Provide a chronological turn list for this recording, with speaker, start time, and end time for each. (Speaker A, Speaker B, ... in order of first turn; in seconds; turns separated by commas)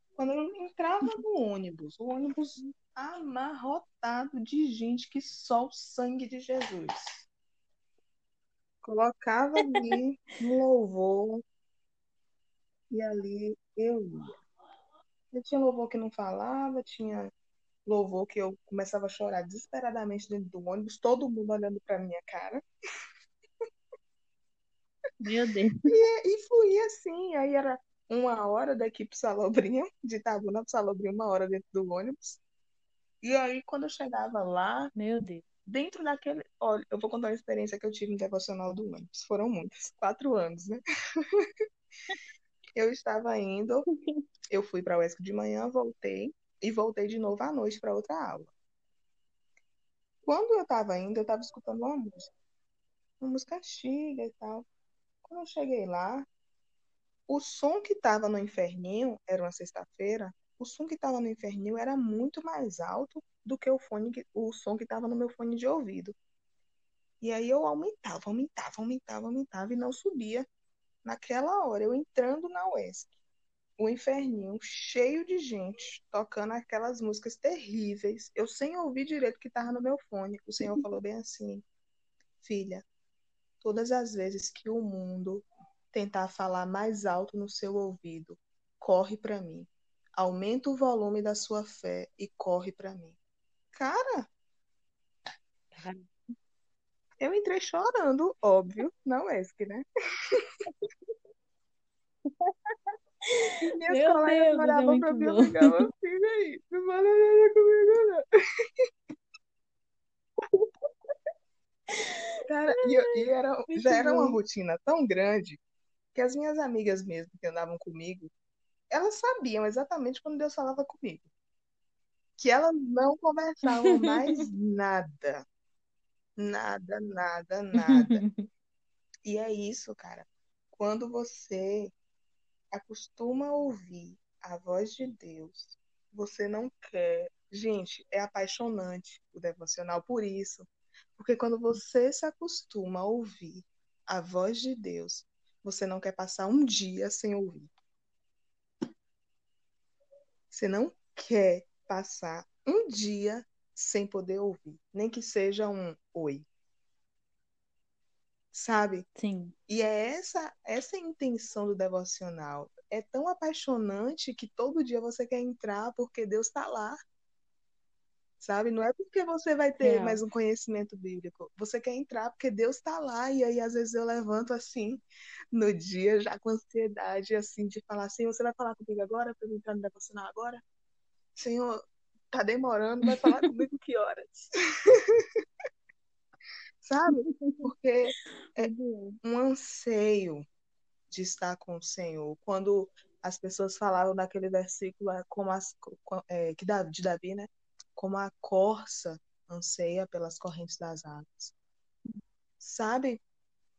Speaker A: 0.2-7.3, Speaker A: 8.8-11.4, Speaker B: 9.6-9.8, Speaker A: 12.9-14.4, Speaker A: 15.3-17.3, Speaker A: 17.9-22.6, Speaker B: 25.2-25.9, Speaker A: 25.9-32.4, Speaker A: 33.2-34.9, Speaker B: 35.0-35.4, Speaker A: 35.7-40.8, Speaker A: 42.8-43.9, Speaker A: 44.5-48.5, Speaker A: 50.2-52.3, Speaker A: 53.2-54.7, Speaker A: 55.2-56.3, Speaker A: 57.3-66.2, Speaker A: 67.2-70.5, Speaker A: 71.0-73.1, Speaker A: 73.8-81.6, Speaker A: 82.4-82.8, Speaker A: 83.6-93.2, Speaker A: 93.7-94.3, Speaker B: 95.8-96.1, Speaker A: 97.2-100.4, Speaker B: 102.2-102.8, Speaker B: 103.3-105.9, Speaker A: 103.7-108.2, Speaker B: 110.4-110.9, Speaker B: 111.9-114.4, Speaker A: 112.5-115.6, Speaker A: 116.1-118.3, Speaker A: 118.9-121.3, Speaker A: 122.4-125.4, Speaker B: 123.7-124.5, Speaker A: 126.4-128.2, Speaker B: 127.8-128.5, Speaker A: 129.2-131.9, Speaker A: 132.7-147.7, Speaker A: 150.5-156.5, Speaker A: 158.5-159.1, Speaker B: 159.2-159.6, Speaker A: 159.7-167.0, Speaker A: 168.4-180.6, Speaker B: 169.8-170.2, Speaker A: 181.4-185.4, Speaker B: 183.1-183.5, Speaker A: 186.8-188.7, Speaker B: 187.1-187.7, Speaker B: 188.5-189.2, Speaker A: 189.2-190.4, Speaker A: 191.1-201.5, Speaker A: 202.6-203.2